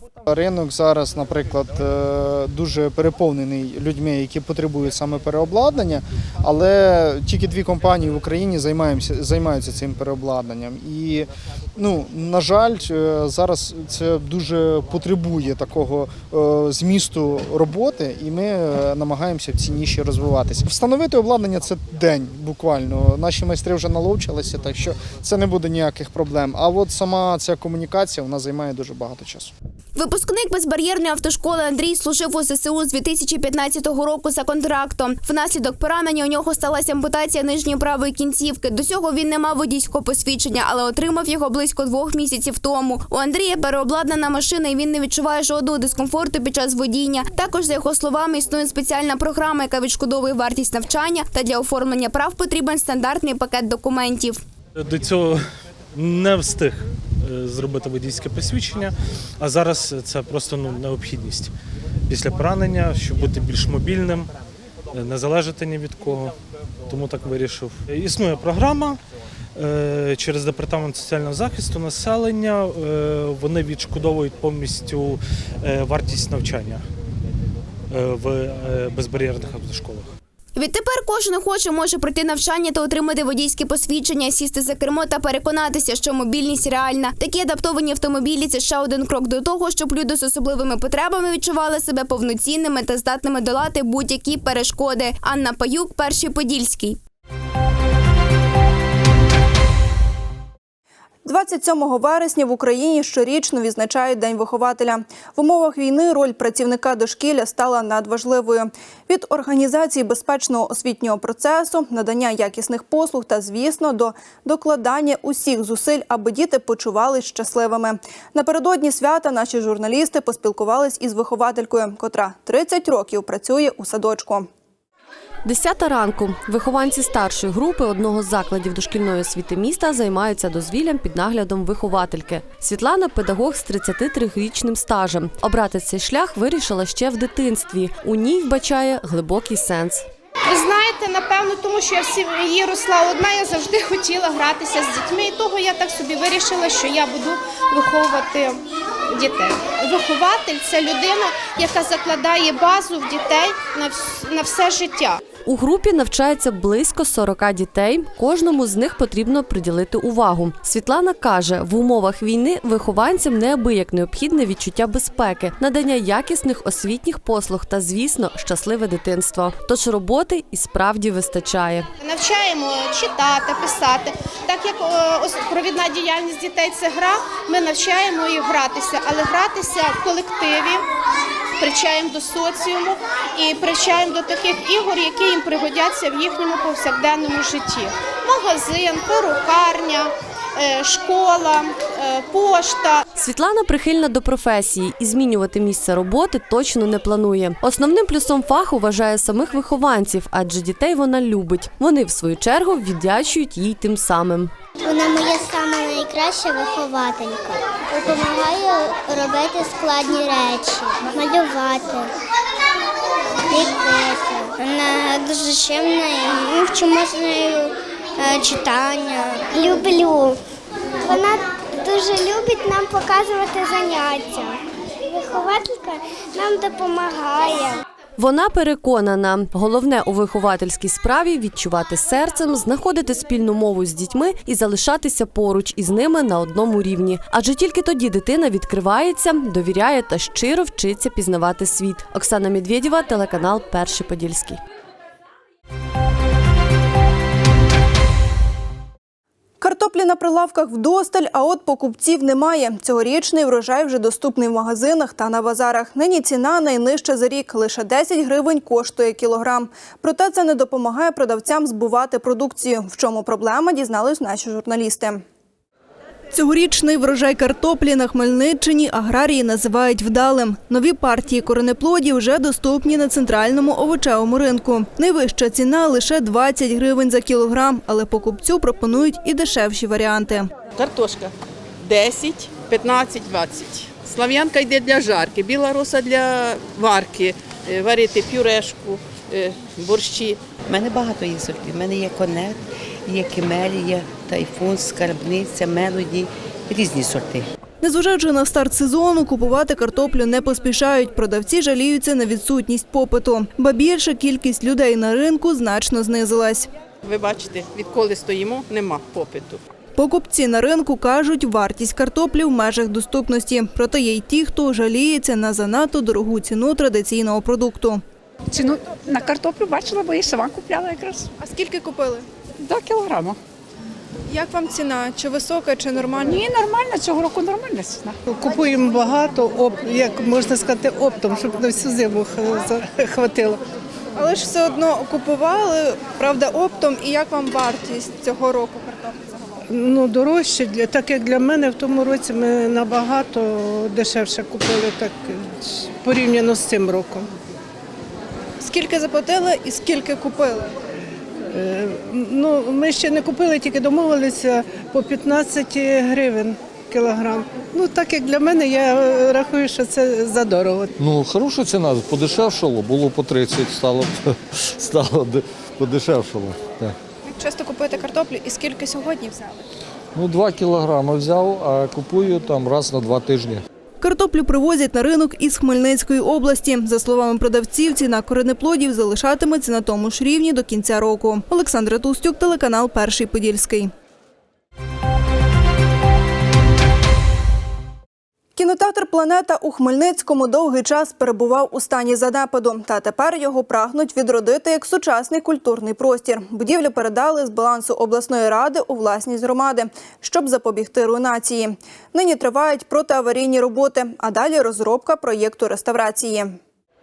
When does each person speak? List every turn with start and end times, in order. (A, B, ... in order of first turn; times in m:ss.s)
0:00.3-0:29.5 A
0:30.0-0:54.4 B
0:54.8-1:01.5 C
1:02.1-1:04.3 C
1:04.9-1:06.4 C
1:06.9-1:09.0 C
1:09.6-1:16.9 C
1:17.9-1:20.1 C
1:20.6-1:37.0 B
1:41.2-2:04.5 D
2:05.4-2:20.0 E
2:20.5-2:35.2 F
2:35.5-2:51.9 E
2:52.0-3:00.8 F
3:01.6-3:13.0 F
3:13.2-3:24.5 E
3:24.8-3:32.1 G
3:33.5-3:40.4 G
3:41.0-3:47.8 G
3:48.2-4:04.6 E
4:09.6-4:25.2 D
4:26.3-4:40.5 D
4:40.8-4:41.3 H
4:41.8-4:50.4 H
4:50.7-4:57.5 I
4:57.8-5:06.7 D
5:07.1-5:09.6 H
5:10.0-5:18.0 D
5:18.5-5:21.3 J
5:21.4-5:22.3 D
5:22.6-5:23.3 J
5:24.3-5:26.4 D
5:26.3-5:28.2 J
5:28.3-5:33.6 K
5:34.2-5:39.2 D
5:39.7-5:47.3 K
5:48.6-5:50.7 D
5:51.5-6:00.9 K
6:01.0-6:07.0 L
6:07.3-6:09.6 D
6:10.1-6:13.6 L
6:14.0-6:23.9 D
6:28.6-6:46.6 D